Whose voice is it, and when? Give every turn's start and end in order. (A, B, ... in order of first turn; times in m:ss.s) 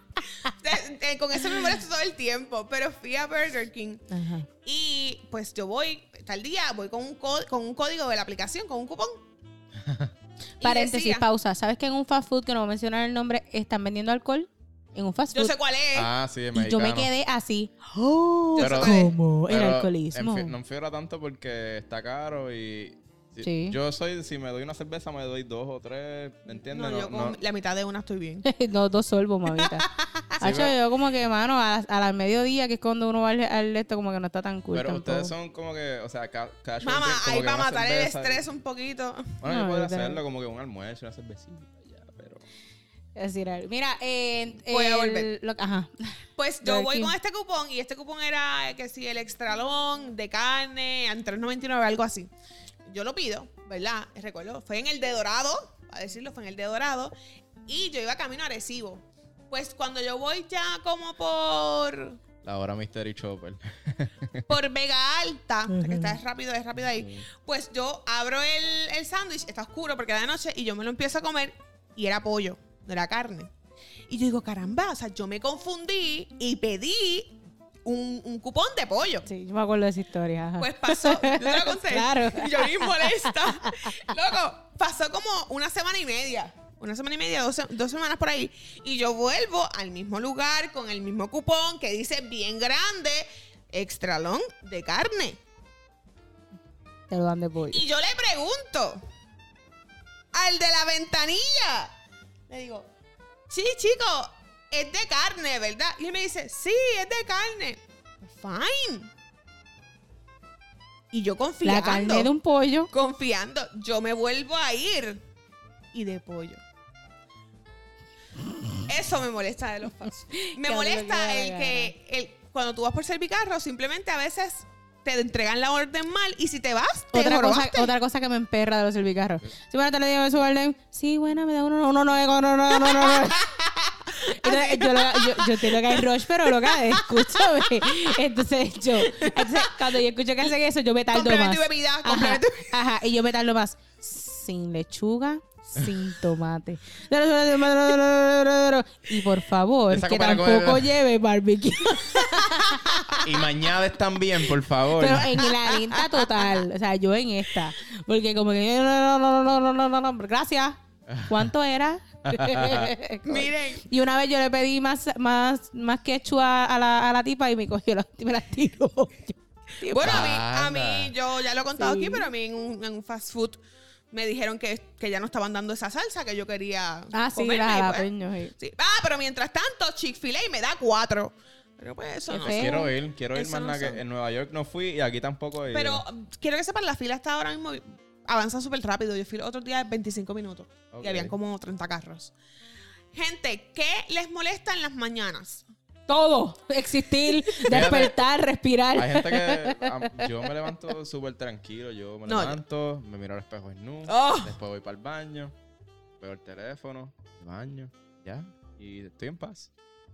0:00.4-0:04.0 A
0:04.1-0:04.4 B
0:04.6-0:09.2 A
0:09.8-0:10.1 C
0:10.6-0:11.2 A
0:10.6-0:15.5 B
0:15.3-0:16.1 A
0:15.9-0:17.1 C
0:16.5-0:20.5 B
0:18.5-0:19.1 A
0:18.6-0:27.4 C
0:23.4-0:23.8 B
0:26.7-0:28.4 A
0:28.4-0:35.3 B
0:29.5-0:30.5 A
0:30.4-0:30.7 C
0:34.7-0:38.4 C
0:36.8-0:39.4 A
0:39.4-0:42.4 C
0:39.4-0:40.2 B
0:43.2-0:47.1 B
0:44.7-0:45.3 A
0:46.4-0:52.3 A
0:52.8-0:57.1 A
0:57.6-1:02.2 A
1:02.4-1:04.5 C
1:04.5-1:13.5 A
1:05.7-1:06.2 B
1:14.1-1:19.3 A
1:19.3-1:23.9 B
1:20.6-1:35.4 A
1:37.1-1:37.8 B
1:37.7-1:39.0 A
1:40.3-1:41.9 A
1:42.5-1:42.9 A
1:43.5-1:49.1 A
1:51.1-1:52.3 A
1:51.6-1:52.9 B
1:52.9-1:55.2 A
1:55.9-1:56.6 A
1:58.9-2:07.9 A
2:00.4-2:01.9 B
2:07.1-2:13.5 B
2:12.7-2:18.1 A
2:14.3-2:33.2 B
2:19.0-2:19.8 A
2:21.1-2:22.8 A
2:29.9-2:30.9 C
2:32.4-2:32.9 A
2:33.2-2:35.4 C
2:34.9-2:50.3 B
2:35.4-2:36.5 A
2:41.1-2:41.5 C
2:42.3-2:42.9 C
2:43.2-2:43.8 A
2:49.8-2:58.1 A
2:50.0-2:51.1 C
2:51.8-2:52.3 B
2:57.1-2:58.5 B
2:58.6-3:04.0 A
3:02.3-3:02.9 B
3:02.4-3:06.0 C
3:05.7-3:12.3 A
3:10.9-3:11.3 C
3:13.1-3:15.6 A
3:16.1-3:20.3 B
3:17.6-3:18.2 C
3:18.9-3:25.5 C
3:22.3-3:22.6 A
3:24.1-3:24.6 A
3:26.2-3:29.7 C